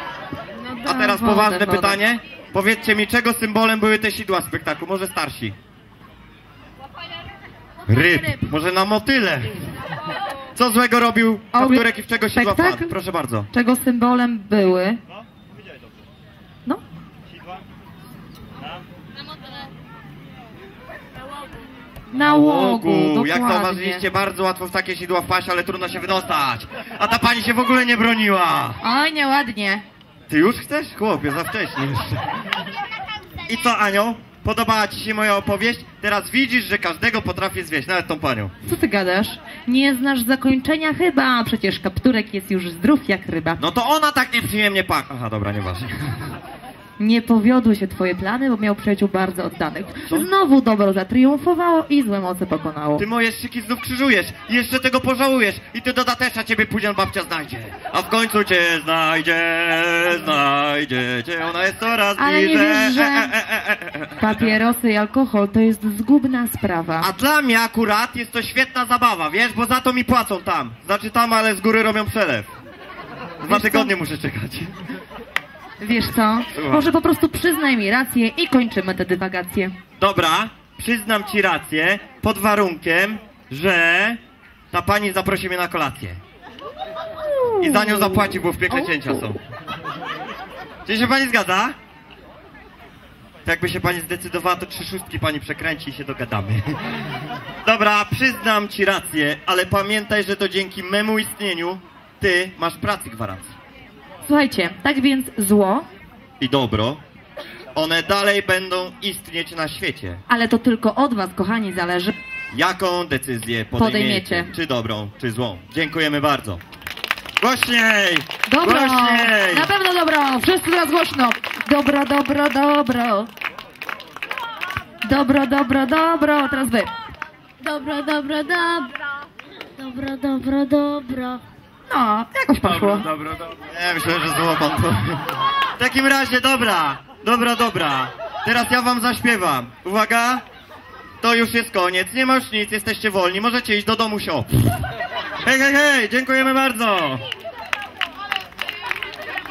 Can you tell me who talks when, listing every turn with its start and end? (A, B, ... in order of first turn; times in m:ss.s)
0:00.6-0:02.0 A
0:00.8-0:05.6 B
0:07.9-0:09.7 B
0:10.5-0:13.5 B
0:11.5-0:12.9 A
0:13.5-0:15.0 A
0:22.1-0:24.0 A
0:22.1-0:28.8 B
0:28.8-0:29.8 A
0:30.3-0:32.2 B
0:33.4-0:38.5 B
0:38.6-0:43.6 A
0:43.6-0:46.3 B
0:47.0-0:53.0 A
0:53.0-1:04.6 B
1:02.2-1:03.3 A
1:04.2-1:07.1 A
1:07.0-1:12.5 B
1:13.4-1:14.7 B
1:13.4-1:13.9 A
1:15.8-1:19.7 A
1:16.5-1:16.9 B
1:20.0-1:24.2 B
1:24.7-1:26.2 B
1:27.3-1:28.4 A
1:27.6-1:29.4 B
1:30.8-1:31.8 B
1:33.4-1:36.7 B
1:37.6-1:43.6 B
1:44.2-1:45.9 A
1:46.4-1:47.0 B
1:47.7-1:50.2 B
1:50.3-1:52.1 A
1:52.5-1:56.6 B
1:53.8-1:54.5 A
1:57.4-1:59.7 B
1:58.5-2:03.3 A
2:05.0-2:06.9 A
2:07.6-2:08.9 C
2:09.8-2:11.4 C
2:11.9-2:13.1 A
2:12.9-2:15.2 B
2:15.8-2:20.4 B
2:21.2-2:24.5 B
2:25.4-2:27.2 B